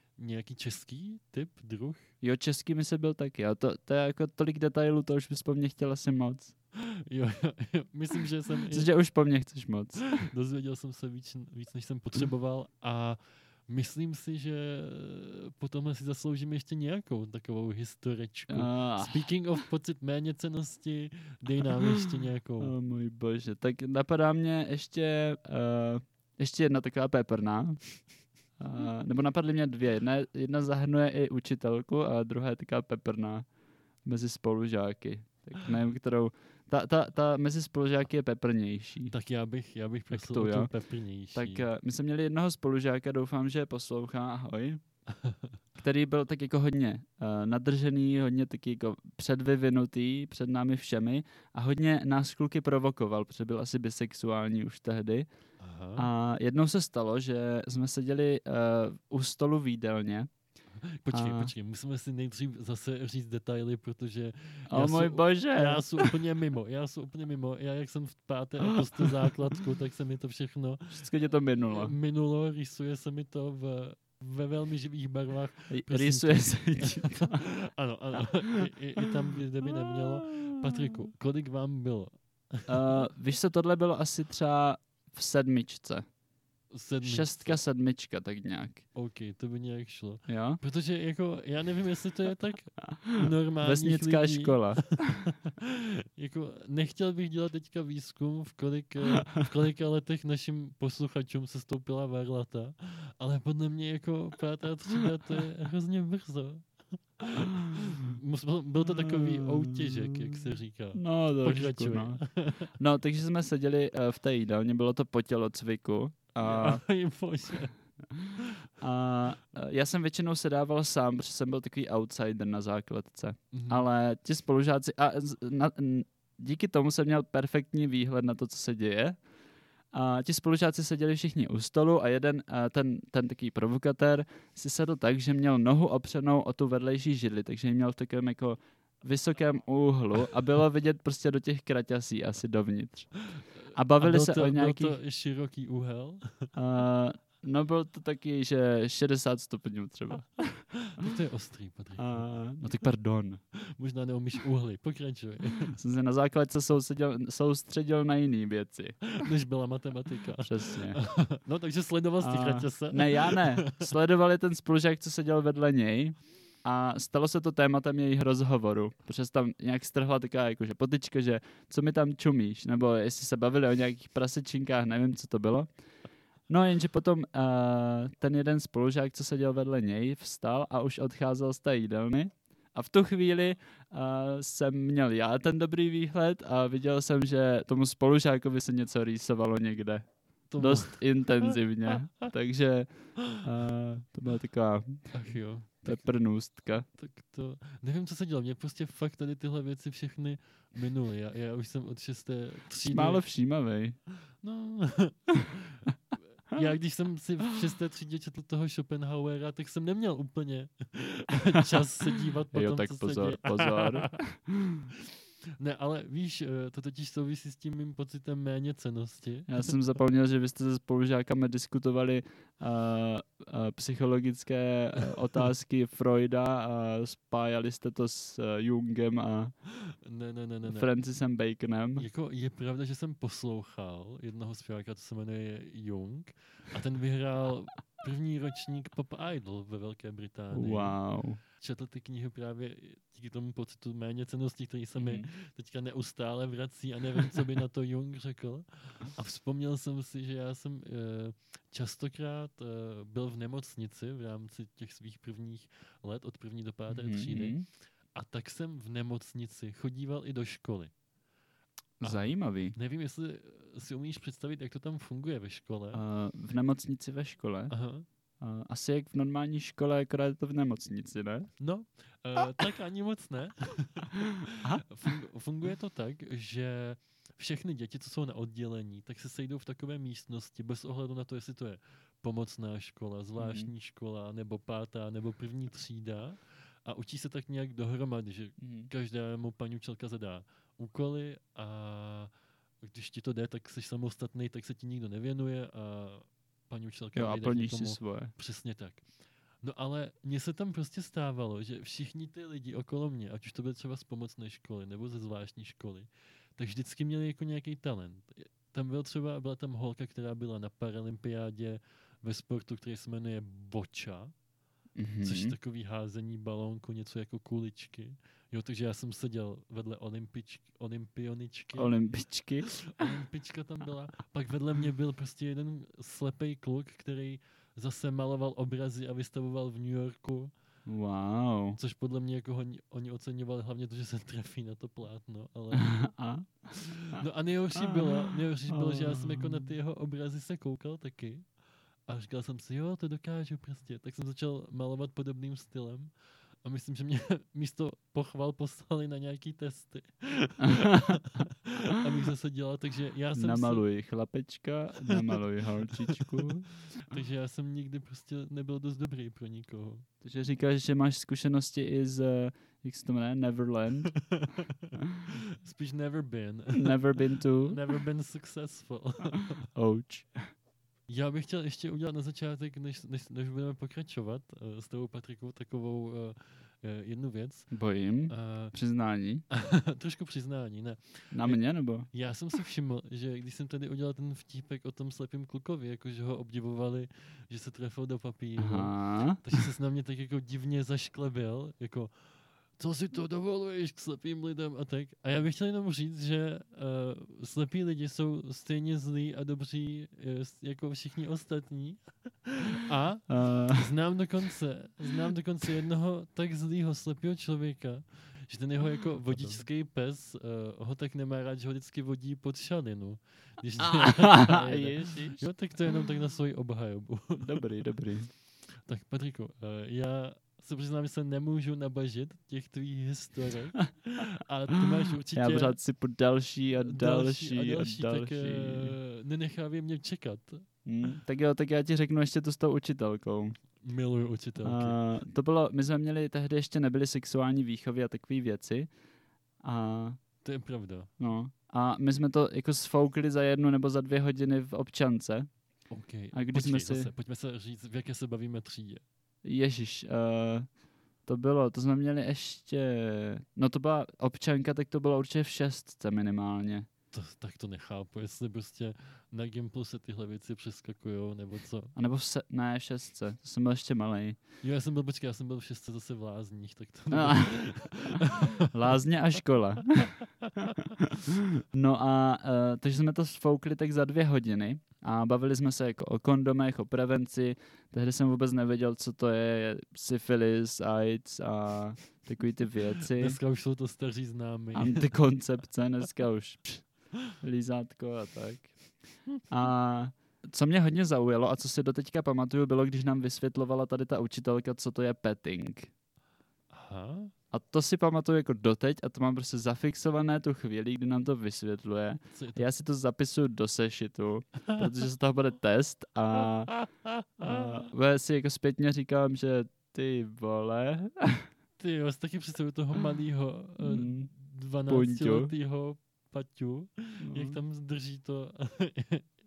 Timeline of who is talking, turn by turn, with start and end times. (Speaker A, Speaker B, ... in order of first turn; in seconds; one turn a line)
Speaker A: 0.2-2.1
Speaker B: 2.2-6.5
Speaker A: 6.8-8.9
Speaker B: 8.7-10.2
Speaker A: 10.1-22.7
Speaker B: 18.5-19.2
Speaker B: 21.6-22.0
Speaker B: 22.6-27.8
Speaker B: 28.6-33.5
Speaker B: 34.0-39.1
Speaker A: 39.1-41.7
Speaker B: 40.1-40.7
Speaker B: 41.4-44.8
Speaker A: 45.2-45.5
Speaker B: 45.8-55.2
Speaker A: 55.6-56.1
Speaker B: 56.0-60.3
Speaker A: 60.8-83.0
Speaker B: 61.1-61.5
Speaker B: 64.7-66.2
Speaker B: 68.7-69.1
Speaker B: 70.9-71.9
Speaker B: 75.7-77.4
Speaker B: 79.9-80.6
Speaker B: 82.7-86.0
Speaker A: 86.7-87.6
Speaker B: 87.0-88.8
Speaker A: 88.9-106.7
Speaker B: 90.3-90.6
Speaker B: 93.0-95.3
Speaker A: 107.2-112.7
Speaker B: 107.4-108.1
Speaker B: 108.8-112.2
Speaker B: 112.8-116.8
Speaker A: 116.4-117.7
Speaker B: 118.8-129.2
Speaker A: 123.5-123.8
Speaker B: 129.9-143.1
Speaker B: 143.7-145.0
Speaker A: 144.0-146.5
Speaker B: 146.6-150.7
Speaker A: 150.9-152.3
Speaker B: 152.0-153.4
Speaker A: 153.7-155.8
Speaker B: 155.7-159.1
Speaker A: 159.2-163.9
Speaker B: 160.4-161.0
Speaker B: 162.2-175.7
Speaker B: 176.5-190.0
Speaker A: 190.5-191.6
Speaker B: 190.6-195.1
Speaker A: 195.1-196.1
Speaker B: 195.8-196.8
Speaker A: 197.0-203.2
Speaker B: 202.8-204.0
Speaker A: 204.4-205.9
Speaker A: 206.4-214.2
Speaker B: 212.5-214.8
Speaker A: 215.6-219.8
Speaker B: 219.5-229.5
Speaker A: 230.1-230.9
Speaker B: 230.7-232.1
Speaker A: 232.0-241.0
Speaker B: 240.5-241.4
Speaker A: 241.6-257.6
Speaker B: 245.0-245.3
Speaker B: 256.9-257.7
Speaker A: 258.1-260.9
Speaker B: 262.0-262.8
Speaker A: 262.0-266.0
Speaker B: 265.9-267.7
Speaker A: 267.7-268.1
Speaker B: 268.4-271.5
Speaker A: 271.6-292.3
Speaker B: 283.4-283.7
Speaker B: 288.6-288.9
Speaker A: 292.8-299.0
Speaker B: 297.2-298.3
Speaker A: 299.6-314.3
Speaker B: 315.0-315.6
Speaker A: 315.2-322.0
Speaker B: 321.8-322.7
Speaker A: 322.9-330.5
Speaker B: 330.9-331.8
Speaker A: 331.8-335.9
Speaker B: 335.7-337.2
Speaker A: 337.1-341.4
Speaker B: 337.8-339.7
Speaker A: 342.1-346.1
Speaker A: 346.6-353.9
Speaker B: 350.7-351.2
Speaker B: 353.4-356.7
Speaker A: 355.1-355.4
Speaker A: 356.0-360.1
Speaker B: 360.2-364.2
Speaker A: 364.3-367.0
Speaker B: 366.7-367.8
Speaker A: 367.6-369.6
Speaker B: 369.7-370.4
Speaker A: 371.1-377.7
Speaker B: 377.7-379.4
Speaker A: 378.3-378.8
Speaker A: 379.5-381.6
Speaker B: 381.3-382.1
Speaker A: 382.1-392.1
Speaker B: 388.6-389.4
Speaker A: 392.8-417.7
Speaker B: 403.3-403.9
Speaker B: 409.2-409.6
Speaker B: 413.8-415.4
Speaker B: 417.4-418.3
Speaker A: 418.9-425.8
Speaker B: 425.3-429.0
Speaker A: 426.8-430.6
Speaker B: 430.9-433.6
Speaker A: 433.8-435.0
Speaker B: 434.6-438.9
Speaker B: 439.6-440.2
Speaker A: 440.4-441.1
Speaker B: 441.2-445.5
Speaker A: 445.9-449.0
Speaker B: 446.3-447.1
Speaker B: 449.4-450.7
Speaker B: 451.3-456.9
Speaker A: 457.1-461.9
Speaker B: 462.0-464.4
Speaker A: 464.6-468.7
Speaker B: 467.1-467.6
Speaker B: 468.7-470.1
Speaker B: 471.0-483.4
Speaker A: 483.0-485.1
Speaker B: 484.7-488.7
Speaker B: 489.5-495.9
Speaker A: 496.7-497.3
Speaker B: 497.5-506.7
Speaker A: 502.3-502.7
Speaker A: 506.7-507.6
Speaker B: 507.4-511.5
Speaker A: 511.8-519.3
Speaker B: 513.8-514.3
Speaker B: 514.9-515.5
Speaker B: 517.2-517.6